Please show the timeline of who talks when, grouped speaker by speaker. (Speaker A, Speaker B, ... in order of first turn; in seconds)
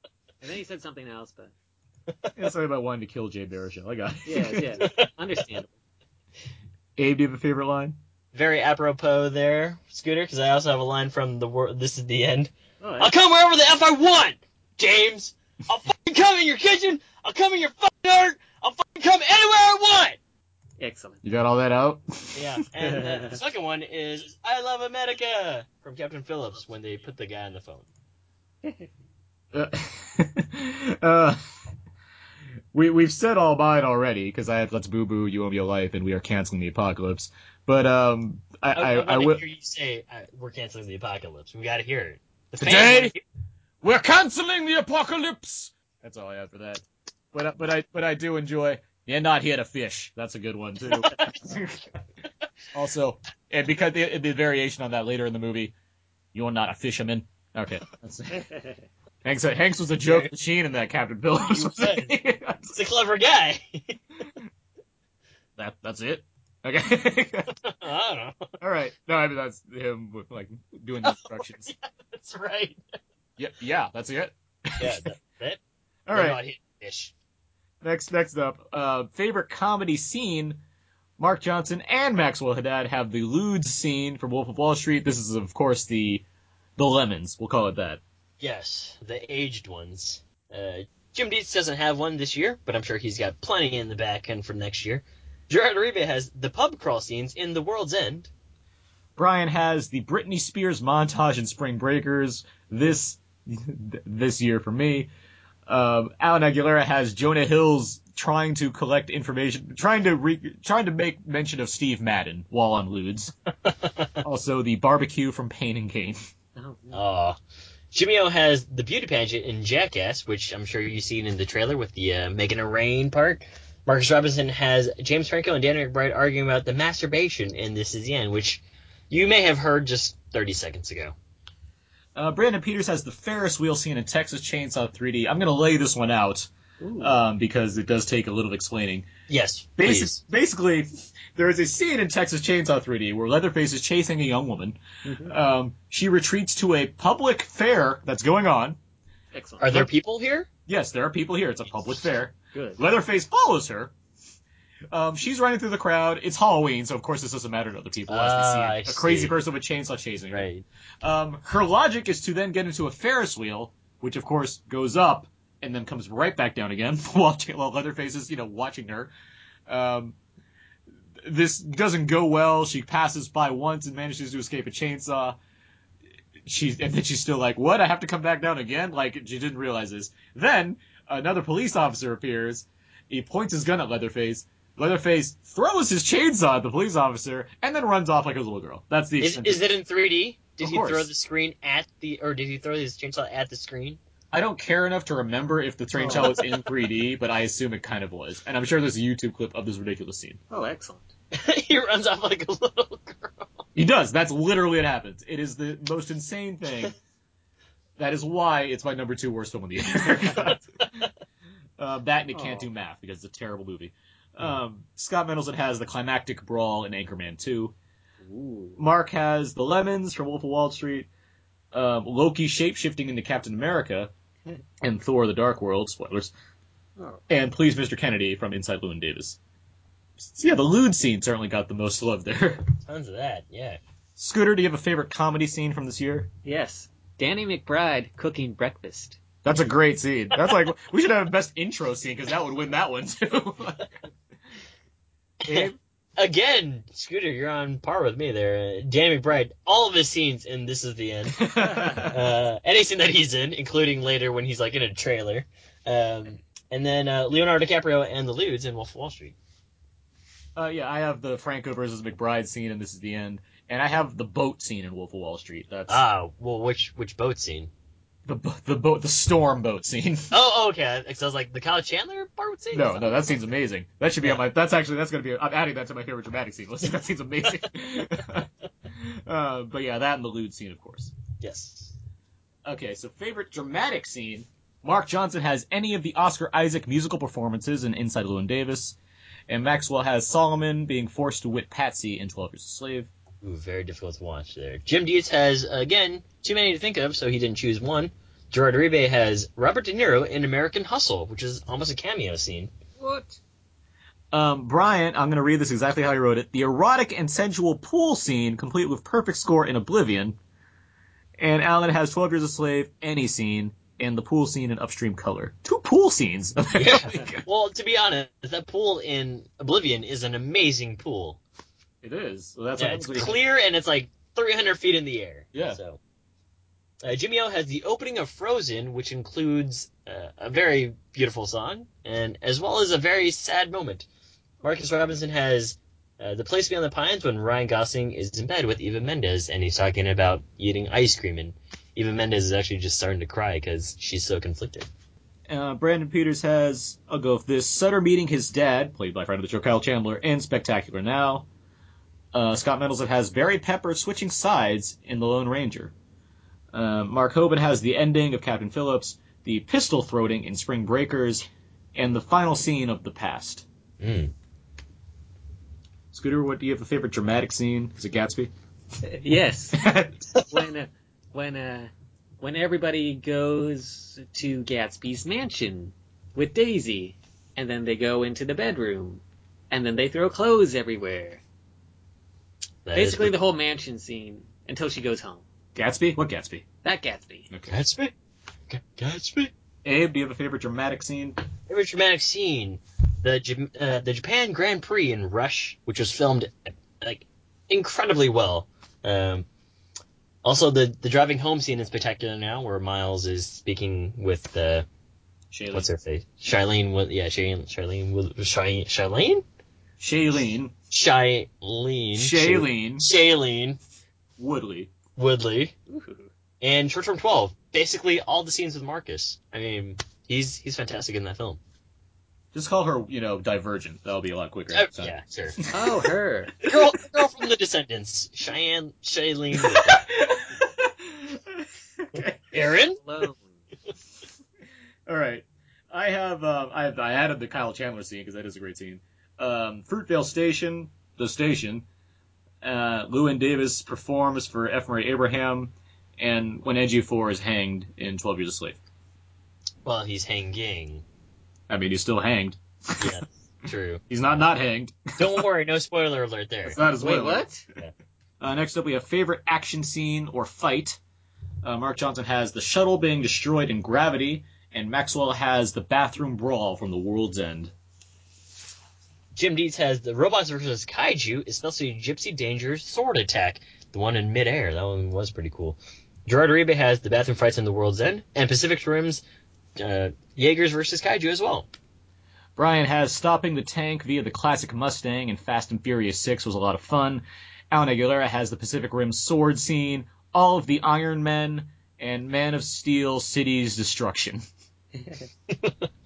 Speaker A: 0.4-1.5, 4.2-5.7, 12.8-13.1, 20.8-21.2, 23.0-23.4, 28.6-28.9, 116.5-117.0, 136.8-137.1, 145.0-145.3, 149.3-149.8, 152.5-152.8, 196.0-196.3, 200.5-201.1, 212.3-212.7, 218.2-218.8, 236.4-239.2, 303.0-303.4, 369.0-381.4, 382.9-385.4, 386.8-387.5, 415.9-416.3, 425.7-426.6, 433.0-433.6, 457.0-457.6, 494.9-495.2
Speaker B: 2.3-4.8, 7.0-8.0, 21.2-22.4, 29.5-31.4, 32.7-39.4, 42.6-43.1, 43.8-51.9, 52.7-55.7, 56.3-58.5, 59.2-62.8, 65.6-67.6, 68.6-71.7, 73.4-75.0, 76.1-76.4, 77.8-80.6, 81.2-86.2, 86.8-88.0, 99.2-105.1, 105.7-113.3, 114.2-116.2, 132.1-139.1, 139.8-148.8, 150.7-153.9, 154.9-160.5, 161.0-169.1, 169.7-170.2, 171.2-175.4, 176.4-189.7, 190.6-191.1, 194.3-200.4, 203.8-206.9, 208.0-211.1, 211.8-217.7, 218.8-221.1, 221.7-224.1, 224.8-226.3, 227.3-229.4, 230.2-232.7, 234.2-236.3, 239.4-243.9, 245.4-245.8, 251.4-252.2, 260.6-266.0, 268.2-270.3, 272.7-281.1, 282.6-288.9, 289.5-293.1, 304.3-310.4, 311.4-317.4, 322.0-323.4, 325.5-325.8, 345.5-351.5, 352.3-355.9, 356.7-363.6, 366.1-368.5, 369.7-370.2, 385.7-386.6, 387.5-387.8, 389.8-391.4, 405.5-405.9, 410.0-410.7, 412.1-413.1, 414.4-414.9, 422.5-426.1, 429.6-432.6, 435.1-441.9, 442.6-448.8, 451.7-453.2, 454.1-455.4, 456.6-457.5, 458.4-461.0, 461.6-467.7, 482.6-494.4
Speaker C: 4.8-5.1, 8.3-20.2, 22.3-27.9, 38.7-43.2, 60.0-60.3, 61.5-64.0, 67.6-68.6, 71.0-72.8, 74.8-75.6, 76.1-77.1, 88.4-98.3, 116.9-117.4, 117.9-131.1, 139.3-140.2, 149.6-150.5, 158.1-159.3, 160.3-160.6, 189.2-194.0, 196.1-196.4, 201.3-203.6, 232.8-233.8, 245.4-259.4, 265.9-267.7, 270.3-273.4, 281.4-281.9, 293.4-302.7, 316.7-321.4, 322.8-326.0, 327.0-334.1, 334.6-344.9, 364.0-364.3, 382.9-383.3, 387.7-388.1, 388.7-389.5, 391.7-399.4, 400.4-404.9, 405.7-409.4, 410.9-413.8, 415.1-415.7, 416.6-421.6, 424.7-425.6, 426.6-430.1, 432.5-433.0, 449.8-451.0, 453.0-454.0, 455.2-456.8, 469.3-479.2, 479.8-481.7, 495.5-495.9